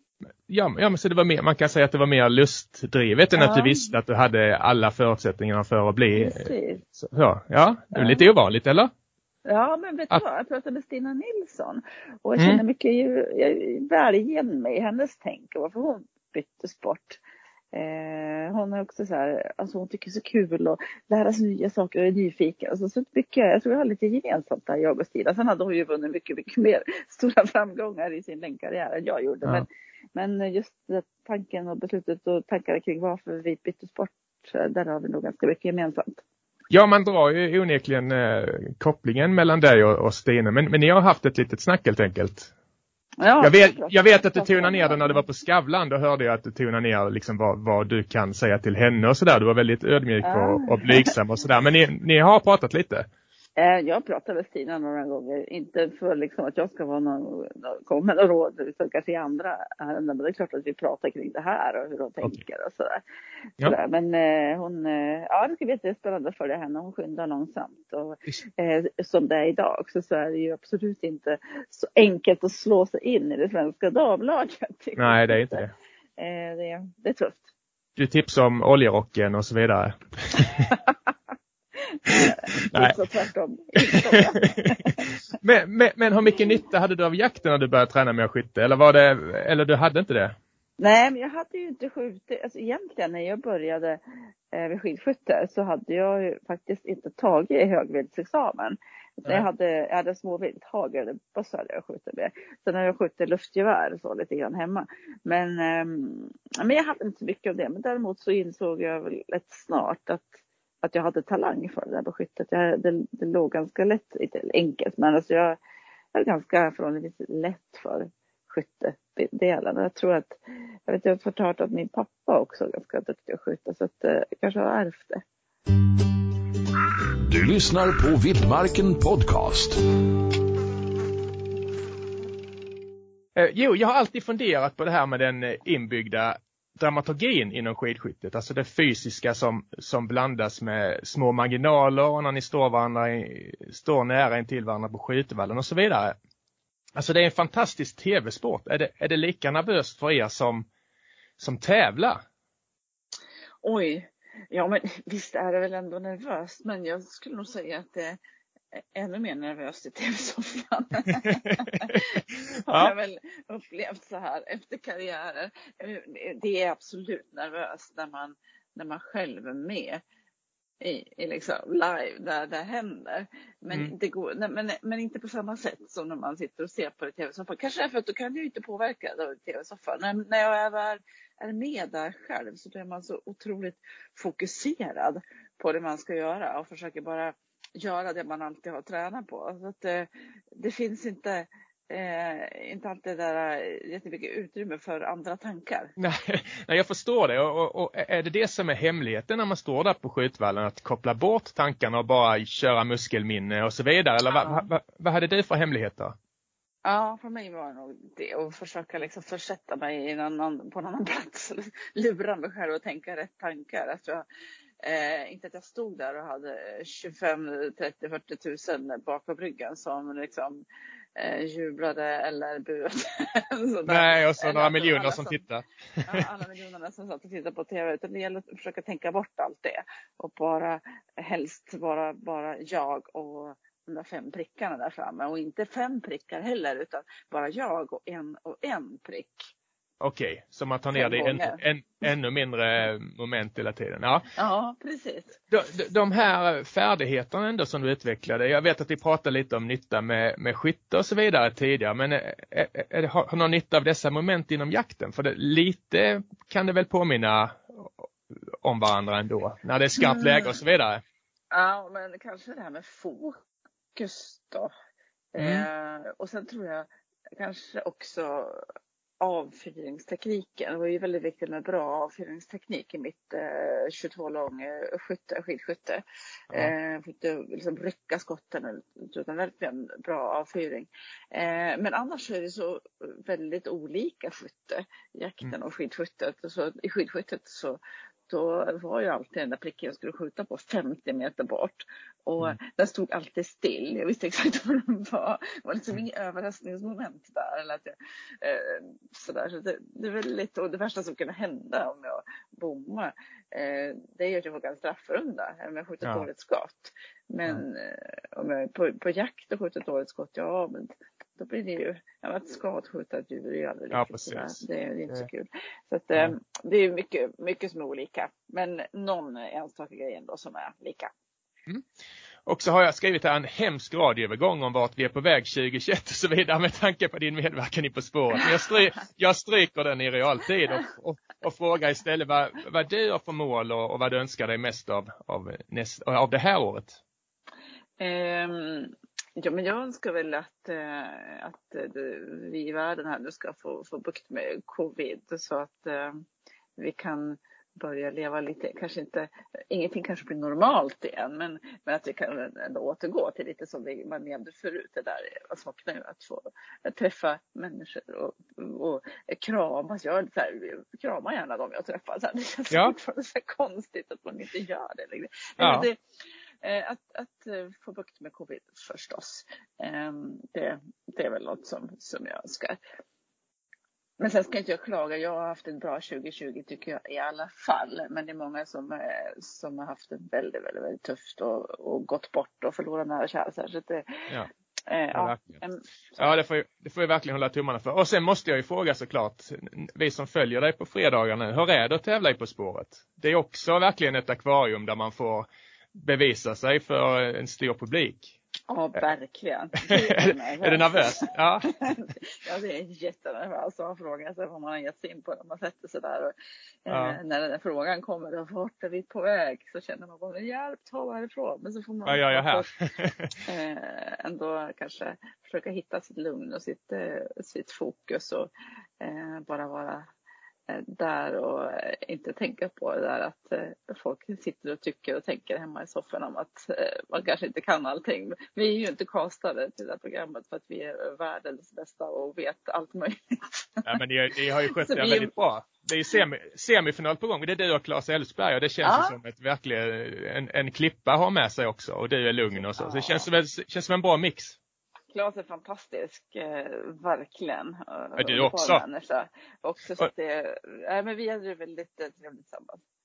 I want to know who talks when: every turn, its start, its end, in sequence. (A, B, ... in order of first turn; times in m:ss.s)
0:00.5-0:08.9 A
0:03.3-0:03.9 B
0:06.1-0:06.8 B
0:07.9-0:08.3 B
0:09.4-0:17.2 B
0:12.4-0:12.6 A
0:17.7-0:36.2 B
0:36.7-0:42.5 A
0:43.2-0:45.2 B
0:43.4-0:53.1 A
0:50.2-0:51.1 B
0:53.6-1:03.0 B
1:03.6-1:15.6 B
1:15.0-1:15.7 A
1:16.2-1:17.5 B
1:18.0-1:20.8 A
1:22.0-1:25.0 B
1:22.6-1:23.0 A
1:23.9-1:24.7 A
1:25.3-1:30.3 A
1:30.8-1:34.0 B
1:34.5-1:55.6 B
1:56.1-2:05.2 B
2:07.2-2:09.8 C
2:13.4-2:26.1 A
2:26.9-2:30.6 A
2:31.4-2:32.2 A
2:33.6-2:38.2 B
2:38.9-2:50.0 B
2:41.6-2:42.0 A
2:42.7-2:42.9 A
2:50.8-3:15.9 B
3:16.0-3:26.1 A
3:24.3-3:24.7 B
3:26.8-3:34.2 B
3:34.8-3:40.6 B
3:41.2-3:45.4 B
3:43.9-3:46.2 A
3:46.0-3:59.5 B
4:00.0-4:04.2 A
4:00.9-4:01.6 B
4:04.4-4:05.4 B
4:05.5-4:21.0 A
4:20.0-4:20.6 B
4:21.5-4:23.4 B
4:23.9-4:24.7 B
4:25.3-4:28.6 B
4:25.4-4:25.6 A
4:29.2-5:21.1 B
5:13.9-5:15.2 A
5:22.4-5:37.0 A
5:38.0-5:46.2 B
5:46.8-6:06.0 B
6:05.6-6:05.9 A
6:06.6-6:12.8 B
6:14.2-6:24.2 B
6:24.9-6:26.3 B
6:25.1-6:25.6 A
6:26.2-6:38.3 A
6:38.7-6:46.3 B
6:39.9-6:41.7 A
6:46.8-6:52.7 B
6:46.9-6:47.2 A
6:52.0-6:53.3 A
6:53.4-7:00.1 B
7:00.7-7:13.9 B
7:13.8-7:24.6 A
7:14.7-7:15.3 B
7:18.8-7:19.2 B
7:22.6-7:23.3 B
7:25.1-7:32.8 B
7:28.2-7:28.8 A